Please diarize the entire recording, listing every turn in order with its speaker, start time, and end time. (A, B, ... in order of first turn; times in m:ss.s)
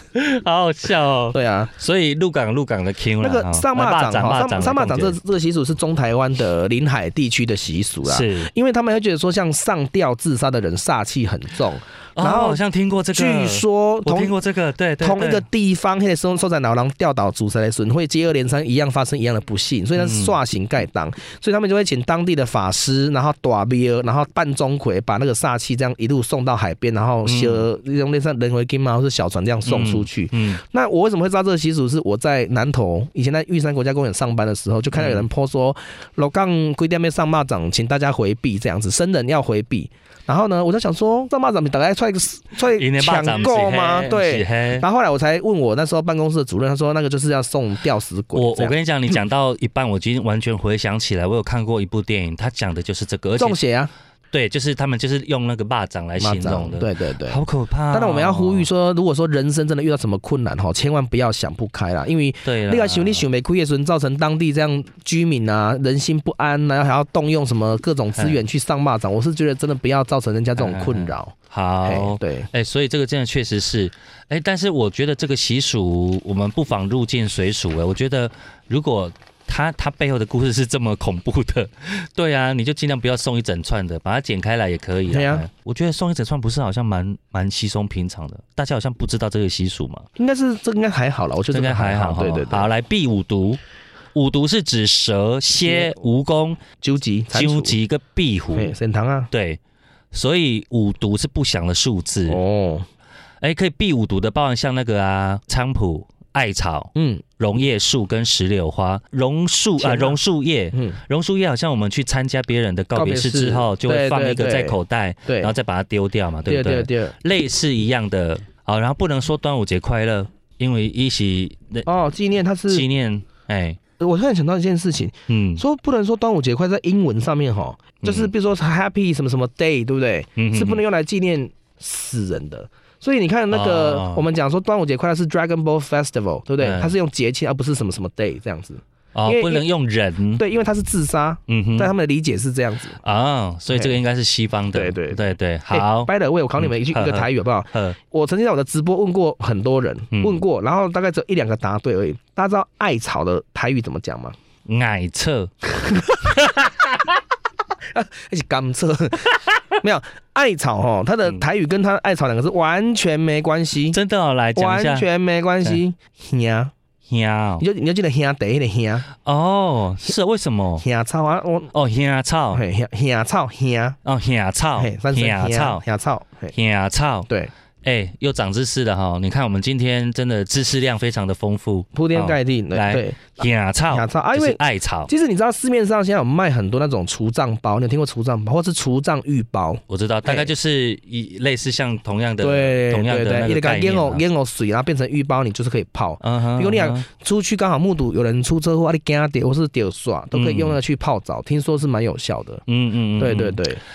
0:00.2-0:05.2 A
0:01.3-0:01.7 B
0:03.2-0:12.6 B
0:08.0-0:08.5 A
0:12.2-0:15.4 A
0:13.1-0:14.4 B
0:15.0-0:48.8 B
0:20.0-0:20.3 A
0:27.3-0:27.6 A
0:29.7-0:30.6 A
0:35.0-0:35.3 A
0:42.8-0:44.8 A
0:48.4-0:53.6 A
0:53.4-0:53.9 B
0:54.3-0:58.7 A
0:56.2-0:57.4 B
0:57.9-1:12.5 B
1:02.4-1:03.2 A
1:10.6-1:30.1 A
1:25.1-1:25.5 B
1:30.2-1:32.7 B
1:31.5-1:33.6 A
1:34.2-1:36.6 A
1:35.6-1:36.0 B
1:36.8-1:37.8 B
1:37.3-1:38.7 A
1:38.5-1:39.3 B
1:39.3-1:39.6 A
1:40.1-1:42.4 A
1:42.3-1:42.9 B
1:43.4-2:01.9 A
1:47.0-1:47.2 B
1:49.8-1:50.2 B
1:50.7-1:51.0 B
1:53.0-1:55.5 B
1:56.5-1:57.1 B
2:01.9-2:02.9 B
2:02.7-2:03.8 A
2:04.0-2:19.7 B
2:05.3-2:05.6 A
2:08.0-2:08.3 A
2:10.4-2:10.8 A
2:13.5-2:14.2 A
2:16.6-2:16.9 A
2:19.1-2:20.4 A
2:20.4-2:23.0 B
2:21.5-2:21.9 A
2:23.0-2:28.0 A
2:23.7-2:24.0 B
2:24.7-2:34.3 B
2:30.1-2:30.4 A
2:34.7-2:35.5 A
2:35.8-2:36.3 B
2:37.9-2:44.0 B
2:43.9-2:45.1 A
2:44.6-2:46.7 B
2:47.1-2:47.6 A
2:47.6-2:49.1 B
2:49.2-2:50.8 A
2:50.8-2:51.7 B
2:51.7-2:52.6 A
2:52.5-2:54.0 B
2:54.0-2:55.8 A
2:54.8-2:56.5 B
2:56.5-2:57.3 A
2:57.8-3:05.1 A
3:01.9-3:10.5 B
3:09.9-3:14.2 A
3:12.4-3:22.6 B
3:16.2-3:17.1 A
3:20.3-3:20.8 A
3:22.7-3:23.6 A
3:23.2-3:23.8 B